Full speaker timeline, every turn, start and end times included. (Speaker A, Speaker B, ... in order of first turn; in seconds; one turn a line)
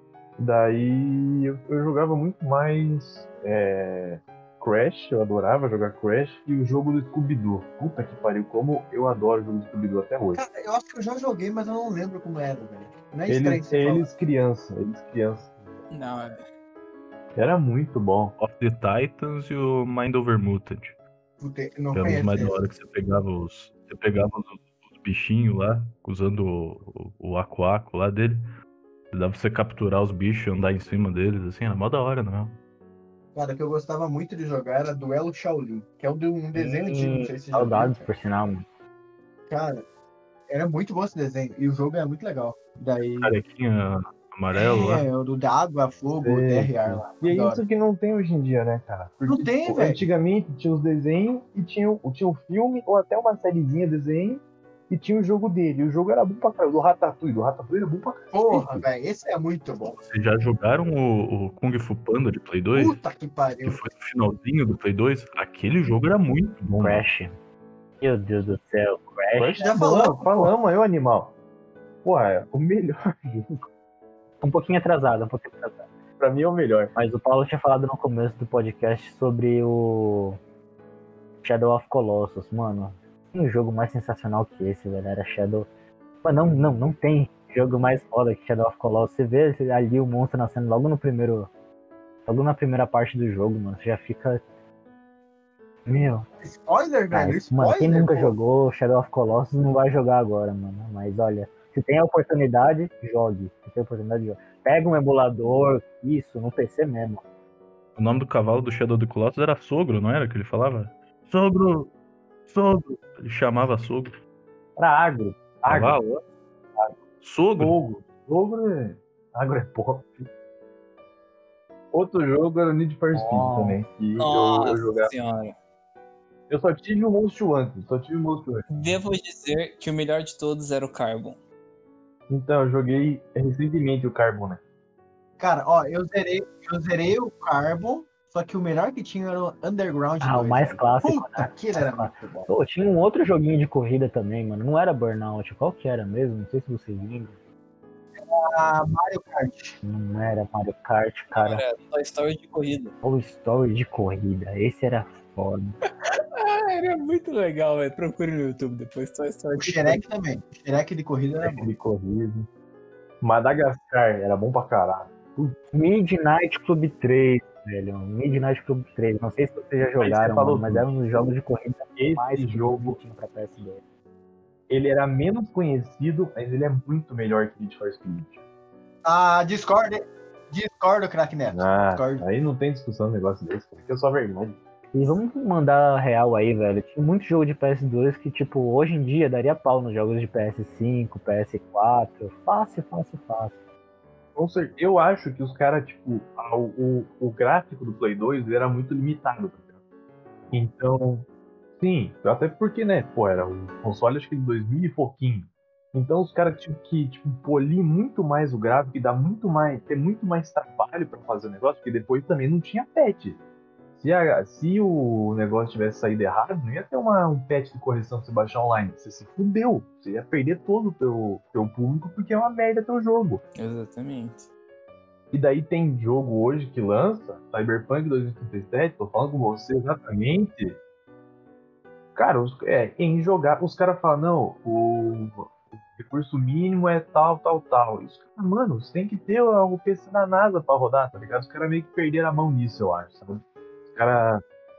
Speaker A: 0.4-10.4
Speaker B: 10.3-14.1
Speaker A: 13.3-15.7
Speaker C: 15.9-16.4
Speaker A: 17.4-18.4
Speaker D: 18.4-21.0
Speaker B: 21.4-22.6
Speaker D: 21.9-28.4
Speaker D: 29.1-32.6
Speaker B: 33.3-38.1
Speaker E: 36.5-38.6
Speaker B: 39.5-39.8
Speaker B: 40.5-43.4
Speaker D: 43.2-45.1
Speaker B: 44.5-47.6
Speaker A: 46.2-58.9
Speaker B: 49.2-50.0
Speaker B: 58.3-60.0
Speaker D: 60.0-63.0
Speaker B: 62.7-63.8
Speaker D: 63.6-67.0
Speaker E: 66.8-67.3
Speaker E: 68.0-69.7
Speaker A: 69.4-71.3
Speaker B: 69.6-70.5
Speaker A: 72.0-73.5
Speaker E: 74.4-75.9
Speaker A: 76.2-76.9
Speaker E: 77.0-80.4
Speaker E: 81.4-85.7
Speaker E: 86.2-91.5
Speaker E: 92.3-94.4
Speaker E: 95.9-96.3
Speaker B: 96.4-98.4
Speaker E: 97.1-107.2
Speaker D: 108.0-111.9
Speaker D: 112.5-114.1
Speaker A: 114.8-116.0
Speaker D: 115.7-116.2
Speaker D: 117.2-117.8
Speaker A: 117.6-120.3
Speaker A: 121.9-125.1
Speaker E: 123.1-123.8
Speaker C: 124.2-125.5
Speaker A: 126.5-128.7
Speaker C: 128.7-131.4
Speaker A: 132.3-134.6
Speaker B: 135.4-142.5
Speaker E: 140.2-147.4
Speaker B: 148.2-149.8
Speaker E: 149.8-151.6
Speaker C: 151.3-152.9
Speaker E: 153.0-155.8
Speaker C: 156.1-160.0
Speaker B: 159.6-161.7
Speaker A: 161.4-162.5
Speaker A: 163.2-165.6
Speaker E: 165.7-173.8
Speaker A: 170.0-170.9
Speaker A: 172.0-173.0
Speaker A: 174.7-178.4
Speaker B: 179.1-182.2
Speaker A: 181.5-184.6
Speaker E: 184.9-193.6
Speaker A: 194.4-199.7
Speaker A: 200.5-201.3
Speaker A: 201.8-213.4
Speaker A: 214.0-223.4
Speaker C: 223.6-224.5
Speaker A: 225.3-230.8
Speaker A: 232.2-244.4